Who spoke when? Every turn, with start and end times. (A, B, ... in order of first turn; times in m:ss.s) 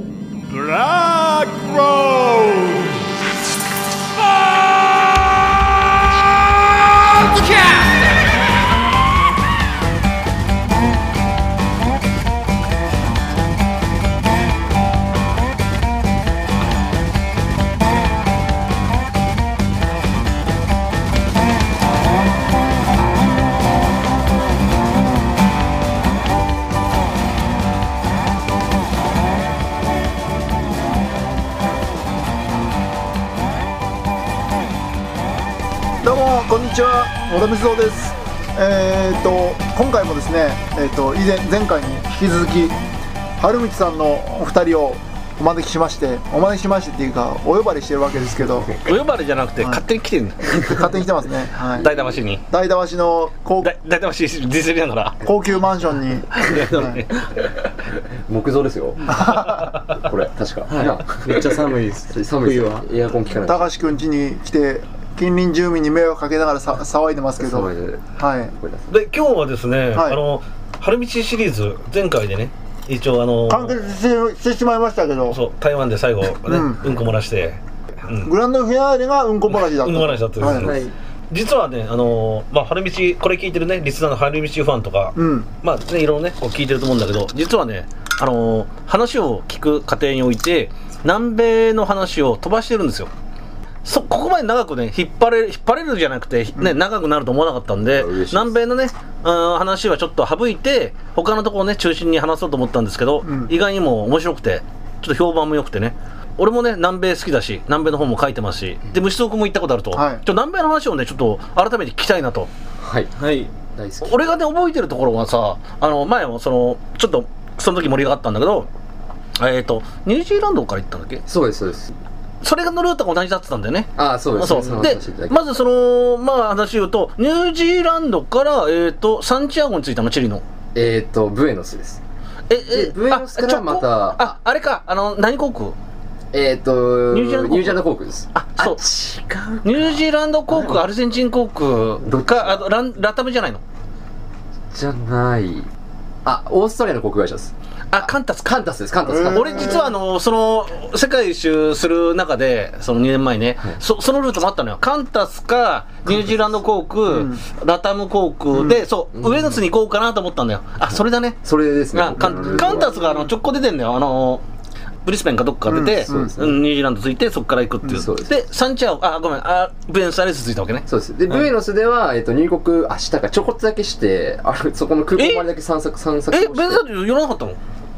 0:00.5-0:03.1 A
0:04.2-0:05.5 A
0:07.0-0:08.2 A
0:36.0-0:42.8 B
0:43.4-0:48.8 B
0:48.8-0:50.9 C
0:50.6-0:51.9 B
0:51.8-0:52.4 C
0:52.5-0:53.7 B
0:53.6-0:55.2 C
0:55.2-0:57.0 B
0:56.4-0:57.1 C
0:58.3-0:59.3 D
0:59.1-0:59.7 B
0:59.2-0:59.7 C
0:59.9-1:03.7 D
1:00.7-1:02.9 E
1:03.4-1:08.5 B
1:07.4-1:08.0 D
1:08.6-1:08.9 D
1:08.9-1:13.8 C
1:09.9-1:10.2 B
1:13.5-1:15.4 B
1:15.3-1:18.3 C
1:16.5-1:16.8 B
1:18.2-1:20.8 B
1:19.5-1:33.1 C
1:20.5-1:21.0 E
1:25.2-1:25.5 B
1:33.8-1:52.5 C
1:37.9-1:38.6 D
1:43.2-1:43.5 B
1:49.9-1:50.2 B
1:52.8-1:53.1 D
1:53.2-1:53.5 E
1:53.8-1:54.3 D
1:54.0-1:58.7 C
1:59.4-2:01.2 C
2:01.3-2:02.0 D
2:02.4-2:10.4 C
2:04.0-2:05.4 D
2:10.8-2:12.0 D
2:12.5-2:15.8 C
2:12.6-2:14.4 D
2:16.3-2:20.8 D
2:17.1-2:17.8 C
2:18.4-2:18.8 C
2:19.6-2:23.6 C
2:22.0-2:22.7 D
2:24.7-2:25.7 D
2:26.2-2:29.9 D
2:27.9-2:28.6 C
2:29.1-2:30.0 B
2:29.3-2:41.4 C
2:36.1-2:36.6 D
2:37.1-2:37.4 B
2:39.2-2:39.6 D
2:40.8-2:43.0 D
2:41.9-2:44.4 C
2:42.2-2:43.2 B
2:45.0-2:50.8 C
2:45.7-2:46.5 B
2:46.1-2:46.5 D
2:47.9-2:48.3 D
2:50.9-2:56.8 D
2:55.2-2:55.5 C
2:56.3-2:57.6 C